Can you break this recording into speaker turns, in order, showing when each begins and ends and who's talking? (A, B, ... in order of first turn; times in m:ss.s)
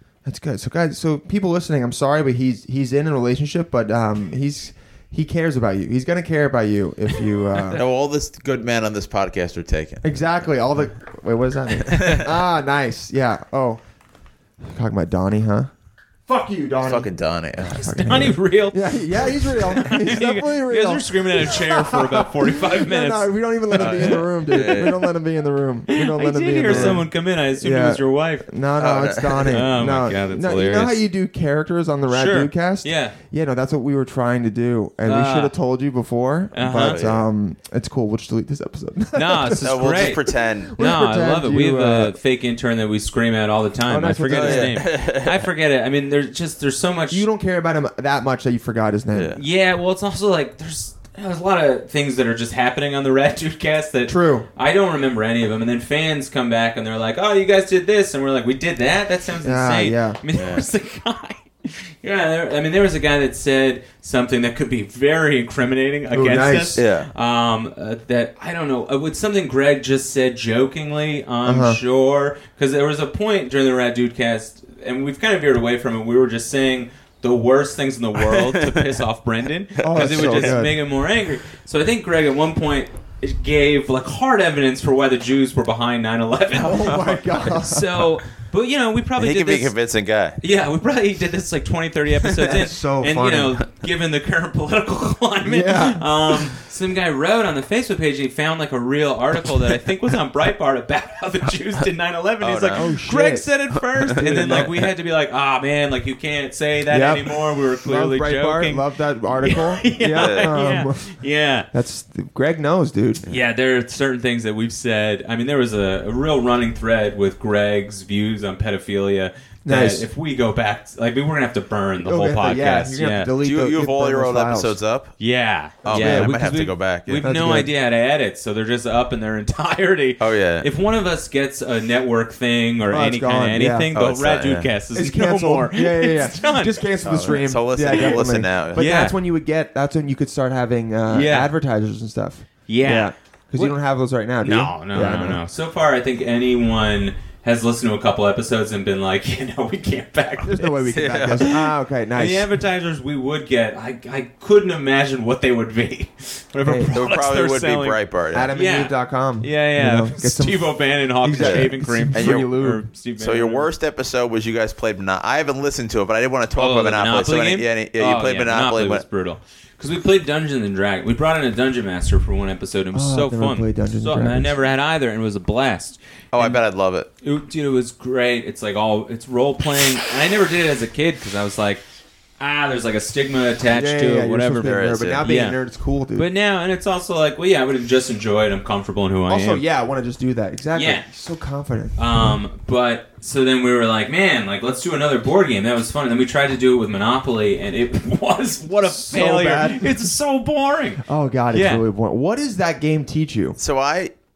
0:00.2-0:07.8 A
0:07.7-0:10.0 B
0:10.0-0:13.8 A
0:11.8-0:12.3 B
0:14.6-0:15.7 A
0:16.3-0:17.1 A
0:16.8-0:17.8 B
0:17.7-0:24.9 C
0:17.7-0:27.1 A
0:23.7-0:25.0 B
0:25.9-0:28.5 C
0:26.6-0:27.0 B
0:27.6-0:42.2 A
0:28.8-0:29.6 B
0:29.4-0:31.0 C
0:32.1-0:33.2 C
0:35.0-0:35.5 C
0:36.5-0:37.0 C
0:36.8-0:37.2 B
0:39.1-0:40.2 C
0:39.6-0:40.7 B
0:40.8-0:47.2 C
0:43.9-0:44.8 A
0:44.3-0:45.4 B
0:47.1-0:49.4 A
0:49.1-0:49.4 B
0:49.4-1:29.7 C
0:54.1-0:54.4 A
0:59.4-1:00.2 A
1:00.3-1:00.6 B
1:06.1-1:06.8 A
1:06.8-1:07.1 B
1:11.4-1:11.8 A
1:18.2-1:18.9 B
1:19.8-1:20.8 A
1:19.8-1:20.6 B
1:26.5-1:27.9 A
1:26.8-1:27.2 B
1:29.2-1:30.4 B
1:30.4-1:51.7 C
1:32.4-1:33.5 A
1:35.4-1:36.1 A
1:42.4-1:42.8 B
1:42.7-1:43.4 A
1:44.0-1:44.9 B
1:46.9-1:51.1 A
1:50.1-1:50.5 B
1:51.7-1:53.2 A
1:53.3-2:03.3 C
1:59.6-2:00.1 A
2:02.0-2:04.8 A
2:03.4-2:05.2 B
2:05.2-2:16.8 C
2:05.8-2:07.2 B
2:05.8-2:06.4 A
2:07.2-2:07.7 A
2:10.2-2:10.7 B
2:12.9-2:13.9 A
2:13.9-2:14.7 B
2:14.9-2:25.4 A
2:17.0-2:18.8 B
2:18.8-2:19.1 C
2:21.1-2:21.5 C
2:22.7-2:23.7 C
2:24.4-2:38.0 C
2:30.4-2:32.5 A
2:30.9-2:31.5 B
2:36.6-2:36.9 A
2:36.9-2:38.5 B
2:38.3-2:42.8 A
2:38.5-2:43.7 C
2:41.4-2:42.6 B
2:43.2-2:49.0 B
2:46.5-2:56.6 C
2:52.9-2:54.5 A
2:56.3-2:57.1 B
2:57.2-3:01.8 C
3:02.4-3:05.6 C
3:03.7-3:06.3 A
3:04.6-3:05.2 B
3:06.2-3:09.6 C
3:09.3-3:12.0 A
3:10.7-3:11.0 C
3:12.0-3:21.8 C
3:18.8-3:20.1 A
3:21.0-3:23.6 A
3:23.6-3:24.1 B